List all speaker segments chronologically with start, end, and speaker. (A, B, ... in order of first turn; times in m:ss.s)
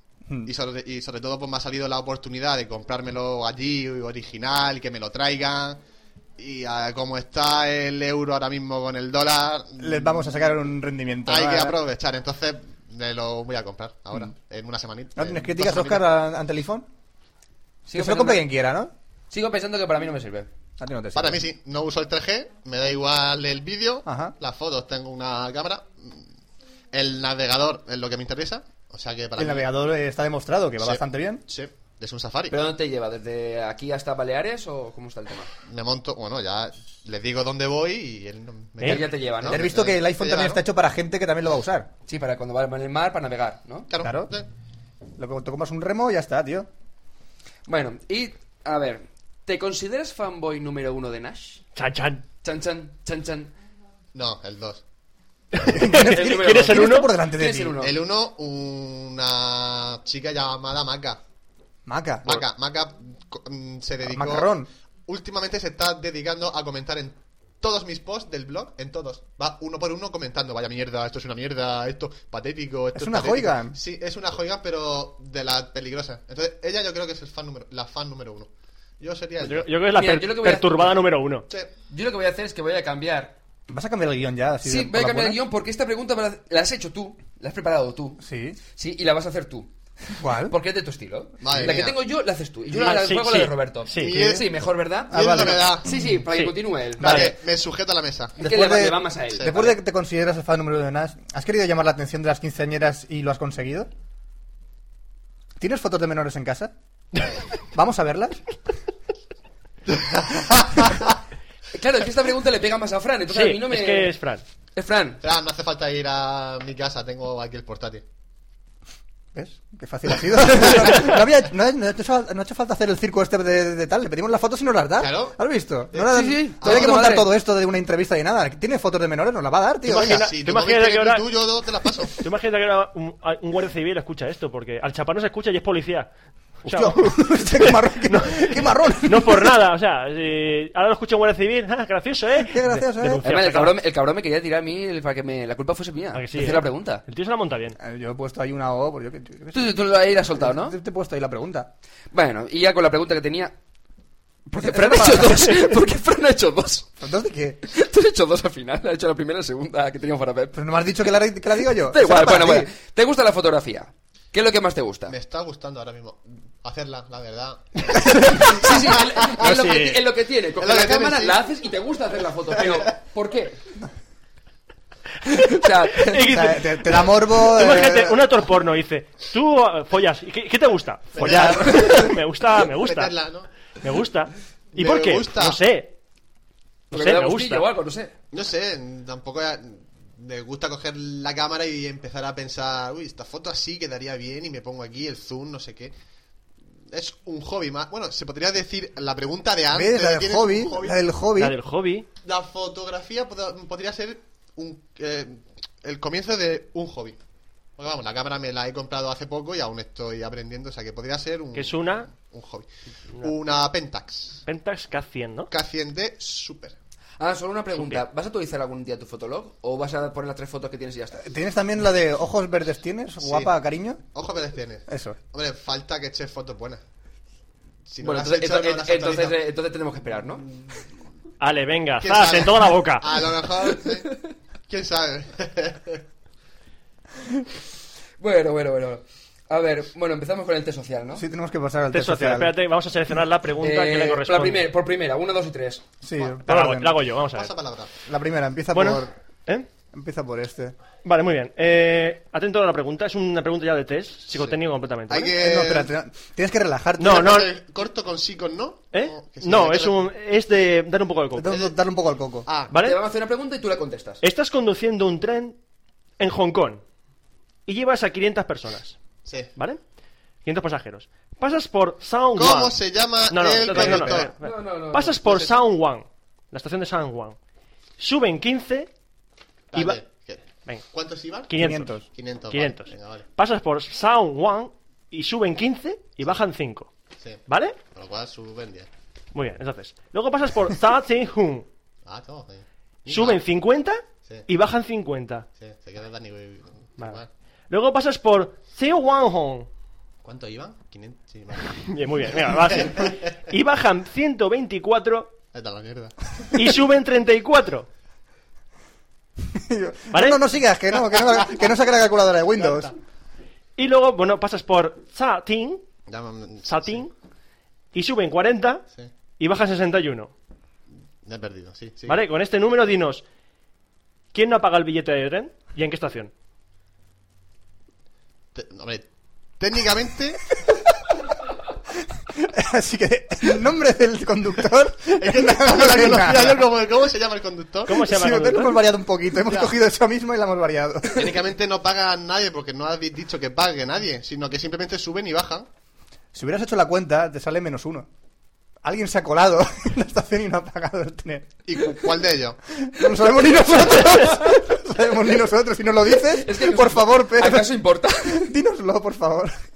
0:00.4-0:05.8 A
0:06.4-0:10.2 A
0:09.8-0:11.8 B
0:11.3-0:16.0 A
0:15.2-0:16.9 B
0:17.8-0:18.5 C
0:17.9-0:18.9 B
0:19.3-0:20.5 C
0:20.8-0:21.4 B
0:21.1-0:26.3 A
0:24.0-0:24.3 B
0:26.9-0:29.7 A
0:29.4-0:31.4 B
0:30.8-0:32.6 A
0:32.5-0:35.5 C
0:35.6-0:40.6 A
0:38.8-0:39.7 C
0:39.4-0:41.9 B
0:42.1-0:43.9 C
0:43.9-0:44.5 A
0:44.0-0:44.3 B
0:45.2-0:46.7 B
0:47.7-0:51.6 C
0:51.8-0:52.2 D
0:52.4-0:53.5 C
0:54.1-0:54.8 A
0:55.5-0:57.1 D
0:55.7-0:57.8 B
0:56.0-0:58.0 C
0:57.8-1:01.2 A
1:01.8-1:02.4 B
1:02.2-1:04.5 A
1:04.0-1:04.7 B
1:05.1-1:18.5 A
1:12.9-1:13.8 B
1:19.0-1:19.7 A
1:19.4-1:21.4 D
1:19.9-1:21.0 C
1:21.9-1:23.4 C
1:23.7-1:25.4 B
1:24.6-1:28.2 C
1:28.2-1:28.6 B
1:28.7-1:29.7 C
1:30.2-1:30.5 B
1:30.3-1:37.3 C
1:31.4-1:32.0 A
1:32.7-1:33.0 A
1:32.8-1:34.2 D
1:34.0-1:34.5 A
1:35.1-1:35.7 B
1:35.1-1:35.9 A
1:37.0-1:37.3 B
1:37.0-1:38.4 A
1:38.4-1:43.9 B
1:38.4-1:39.8 C
1:45.6-1:46.7 B
1:47.7-1:48.4 B
1:49.9-1:51.1 A
1:51.7-1:54.2 C
1:53.3-1:54.4 D
1:54.7-1:55.2 C
1:55.2-1:58.0 A
1:59.3-2:10.2 B
2:05.0-2:05.4 A
2:05.9-2:07.3 C
2:06.6-2:07.0 A
2:09.8-2:11.2 D
2:10.0-2:12.2 A
2:12.2-2:16.1 D
2:16.6-2:23.8 D
2:16.6-2:19.6 B
2:22.4-2:23.2 B
2:23.2-2:27.0 C
2:26.1-2:27.8 D
2:27.8-2:31.7 B
2:29.5-2:30.8 C
2:32.1-2:33.6 C
2:34.5-2:36.9 C
2:34.6-2:35.6 B
2:37.0-2:37.6 B
2:37.7-2:40.6 C
2:40.5-2:42.7 B
2:41.8-2:45.1 C
2:45.1-2:49.9 A
2:48.0-2:48.3 B
2:48.2-2:53.6 C
2:49.4-2:49.8 B
2:50.6-2:51.4 A
2:55.3-2:56.2 C
2:55.9-3:03.1 D
2:56.2-2:58.2 B
3:01.2-3:03.5 A
3:01.2-3:02.1 B
3:03.8-3:05.9 D
3:04.7-3:05.6 A
3:06.9-3:07.7 D
3:06.9-3:08.1 C
3:08.3-3:15.9 A
3:16.9-3:21.0 A
3:19.7-3:21.6 B
3:21.4-3:22.1 D
3:22.2-3:27.2 A
3:27.8-3:32.7 A
3:31.5-3:32.1 D
3:33.2-3:34.4 A
3:34.4-3:35.5 D
3:35.5-3:36.8 A
3:37.2-3:41.2 C
3:37.8-3:38.0 D
3:41.2-3:44.0 B
3:43.2-3:43.5 A
3:44.1-3:46.8 A
3:44.9-3:45.2 B
3:47.9-3:49.4 A
3:48.0-3:50.4 C
3:51.4-3:53.2 D
3:52.0-3:56.0 A
3:58.2-4:01.2 C
4:01.2-4:02.5 B
4:01.9-4:04.7 D
4:03.6-4:05.8 C
4:06.0-4:06.9 B
4:06.4-4:07.5 D
4:07.2-4:07.9 A
4:08.0-4:09.1 B
4:08.7-4:09.7 D
4:09.9-4:10.7 B
4:11.0-4:15.3 D
4:14.3-4:15.9 A
4:15.4-4:17.4 B
4:17.0-4:17.5 D
4:17.0-4:20.1 A
4:18.9-4:21.6 D
4:21.3-4:22.5 B
4:21.4-4:21.7 A
4:22.4-4:22.7 A
4:22.7-4:23.0 D
4:22.8-4:24.2 C
4:24.2-4:25.6 D
4:26.2-4:26.8 D
4:27.6-4:29.0 D
4:29.2-4:29.5 A
4:29.6-4:29.8 D
4:30.4-4:32.8 D
4:32.4-4:34.3 A
4:33.3-4:37.4 D
4:33.7-4:35.6 C
4:38.0-4:38.9 D
4:39.7-4:43.2 A
4:41.5-4:46.9 D
4:41.5-4:42.0 B
4:47.5-4:47.8 D
4:47.9-4:48.9 A
4:49.3-4:51.6 D
4:52.0-4:53.4 A
4:53.1-4:55.4 D
4:55.6-4:57.3 A
4:57.0-4:59.7 D
5:00.2-5:03.3 A
5:01.8-5:05.3 D
5:05.5-5:06.1 A
5:06.5-5:07.9 D
5:09.5-5:12.9 B
5:10.1-5:10.4 D
5:12.6-5:12.9 D
5:13.8-5:15.8 D
5:16.1-5:17.0 A
5:16.7-5:17.1 D
5:17.9-5:18.8 D
5:19.4-5:20.3 D
5:21.2-5:22.2 A
5:22.1-5:23.2 D
5:24.3-5:26.3 D
5:28.5-5:29.0 A
5:29.6-5:30.4 A
5:32.3-5:36.6 B
5:35.2-5:38.0 A
5:37.8-5:38.8 D
5:37.9-5:41.4 B
5:39.4-5:39.7 A
5:41.1-5:45.7 A
5:46.3-5:48.1 B
5:48.8-5:51.6 B
5:51.7-5:52.6 A
5:52.7-5:59.6 B
5:56.3-5:58.5 C